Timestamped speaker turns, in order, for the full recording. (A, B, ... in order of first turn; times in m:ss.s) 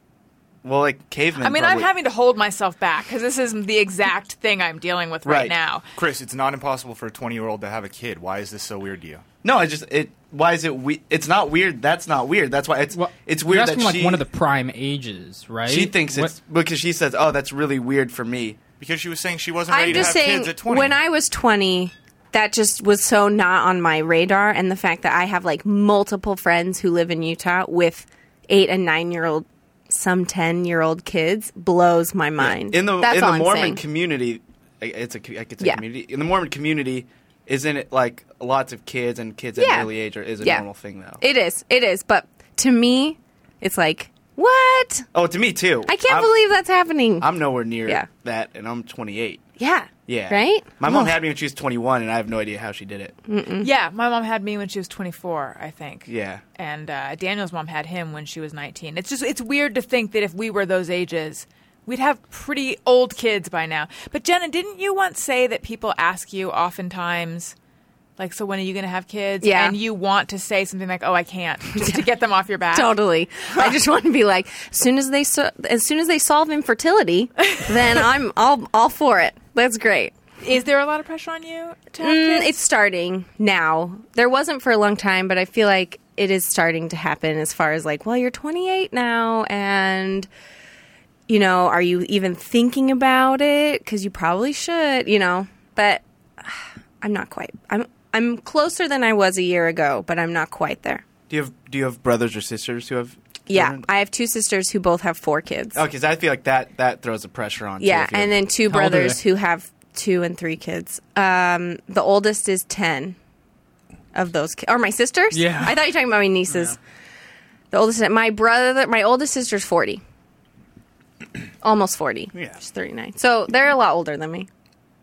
0:00.6-0:01.9 A
0:01.4-0:05.8 B
0:05.2-0:05.5 A
0:06.0-0:09.2 C
0:09.4-0:14.2 A
0:12.9-0:16.3 D
0:15.6-0:18.6 A
0:18.8-0:21.0 C
0:19.7-0:33.8 E
0:32.4-0:41.2 A
0:39.6-0:40.6 E
0:41.2-0:45.1 E
0:45.1-0:46.3 A
0:45.8-0:48.1 E
0:47.2-0:49.4 A
0:49.6-0:51.2 E
0:50.1-0:53.2 A
0:53.3-0:53.7 E
0:53.6-1:07.5 B
0:56.1-0:56.4 A
1:08.2-1:12.9 B
1:09.4-1:09.8 E
1:11.8-1:12.0 E
1:12.7-1:20.1 E
1:20.4-1:22.6 B
1:22.0-1:30.3 E
1:31.3-1:41.0 E
1:41.3-1:43.8 A
1:43.5-1:45.8 E
1:45.7-1:48.4 A
1:47.8-1:53.2 E
1:48.7-1:49.2 D
1:54.1-1:56.8 E
1:55.3-1:55.8 D
1:57.7-2:00.0 E
2:01.6-2:04.5 E
2:02.3-2:02.6 A